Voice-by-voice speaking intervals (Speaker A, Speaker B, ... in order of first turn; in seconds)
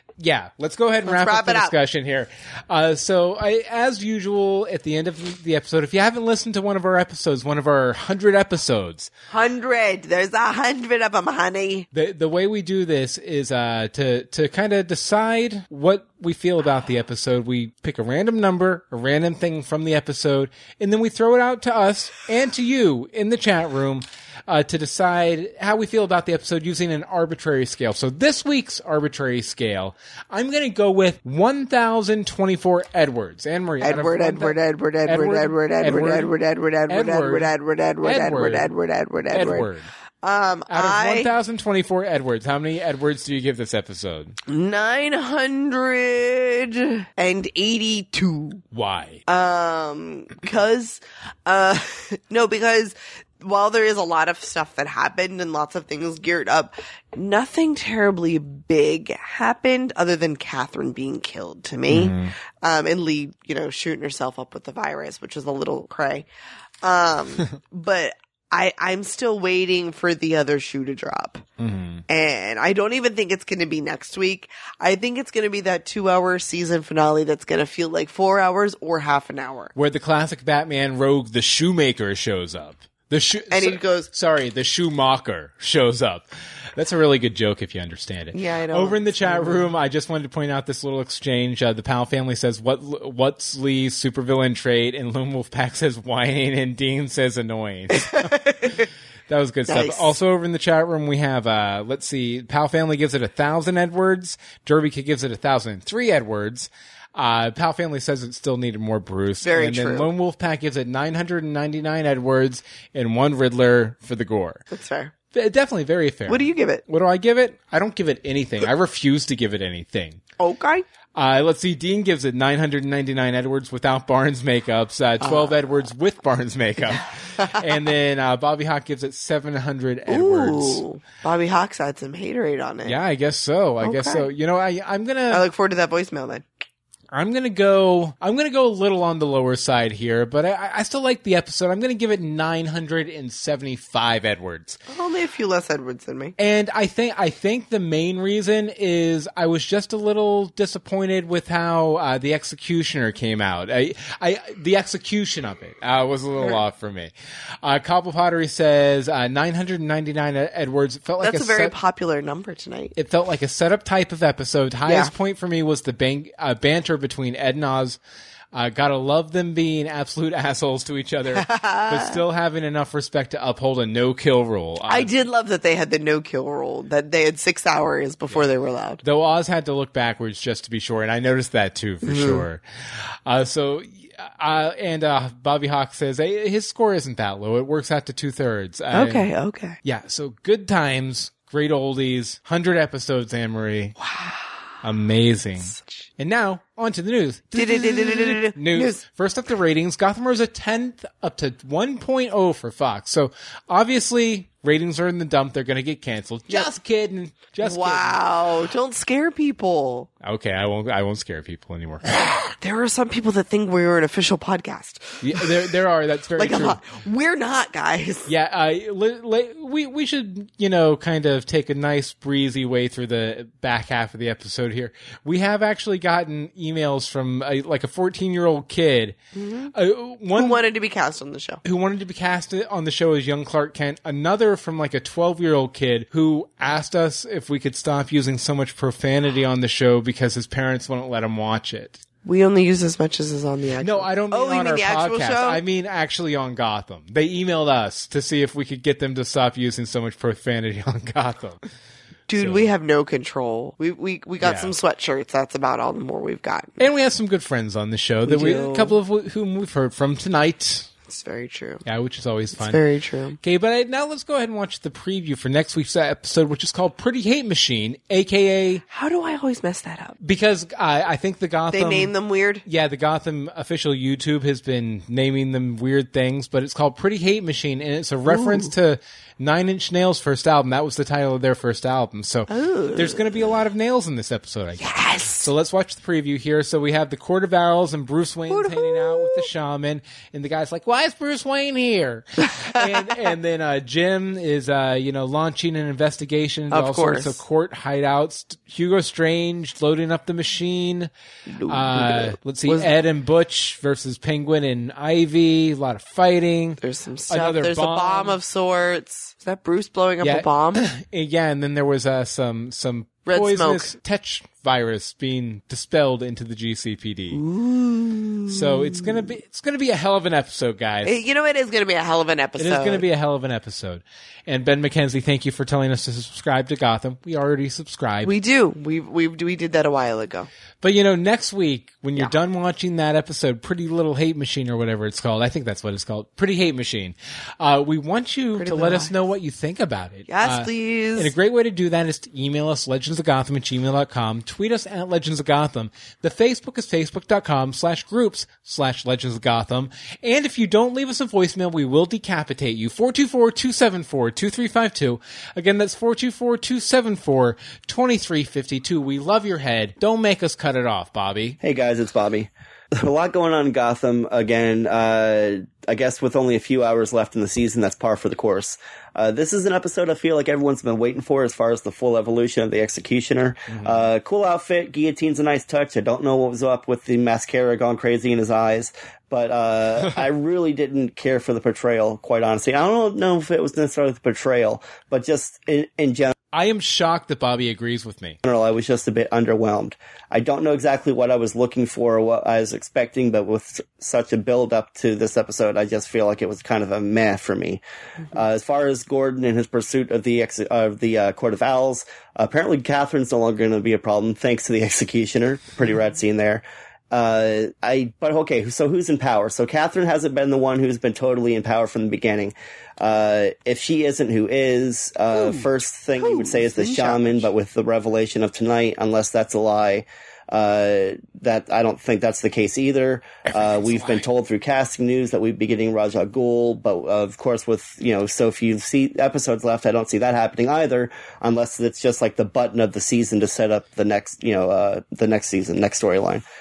Speaker A: 0.2-9.1, 11.9-36.3, 36.9-37.5, 38.0-38.7, 39.3-39.9, 40.7-44.4, 48.7-49.2, 61.9-62.3, 71.6-72.0, 79.8-98.3, 99.3-114.6, 115.3-120.2, 121.1-130.8, 132.8-135.4, 137.1-144.8, 146.4-157.1, 157.6-161.7, 162.9-168.0, 168.5-175.1, 179.0-182.6, 183.3-189.3, 189.8-193.9, 194.8-208.2, 210.2-212.3, 215.2-216.8, 218.3-229.2, 229.7-230.6, 231.6-242.0, 243.8-251.6, 252.4-252.7, 254.4-254.7, 256.8-260.9, 261.9-262.8, 263.4-268.8, 270.2-272.1, 272.6-301.1, 301.7-308.4, 310.2-317.4, 318.5-321.2, 322.6-328.4, 330.8-361.6, 373.7-374.1, 386.5-388.4
Speaker B: 1.1-1.7, 9.3-11.9, 33.8-39.7, 40.2-41.3, 44.5-48.6, 49.3-66.3, 66.8-71.4, 72.1-79.7, 83.5-84.1, 88.3-89.7, 98.1-98.8, 99.7-100.1, 109.4-110.1, 114.7-115.1, 116.3-116.8, 120.4-120.8, 125.2-125.6, 130.1-133.0, 133.8-134.2, 135.3-136.5, 144.9-146.3, 161.2-162.9, 164.9-165.1, 171.3-172.2, 174.9-179.0, 182.1-182.4, 188.9-189.8, 194.0-194.6, 195.7-196.1, 197.6-199.0, 207.6-210.1, 212.6-215.6, 216.4-218.3, 229.3-229.7, 230.3-231.6, 242.2-245.6, 252.3-256.7, 258.3-258.9, 261.1-261.8, 262.6-263.4, 268.9-270.2, 271.7-272.6, 278.3-278.7, 282.5-283.3, 284.8-285.5, 288.5-289.5, 296.7-297.4, 301.5-302.9, 306.8-310.9, 313.3-313.9, 317.3-319.1, 321.1-323.1, 328.2-330.5, 338.6-339.1, 340.3-341.3, 415.3-417.5
Speaker C: 361.6-386.3, 388.4-436.4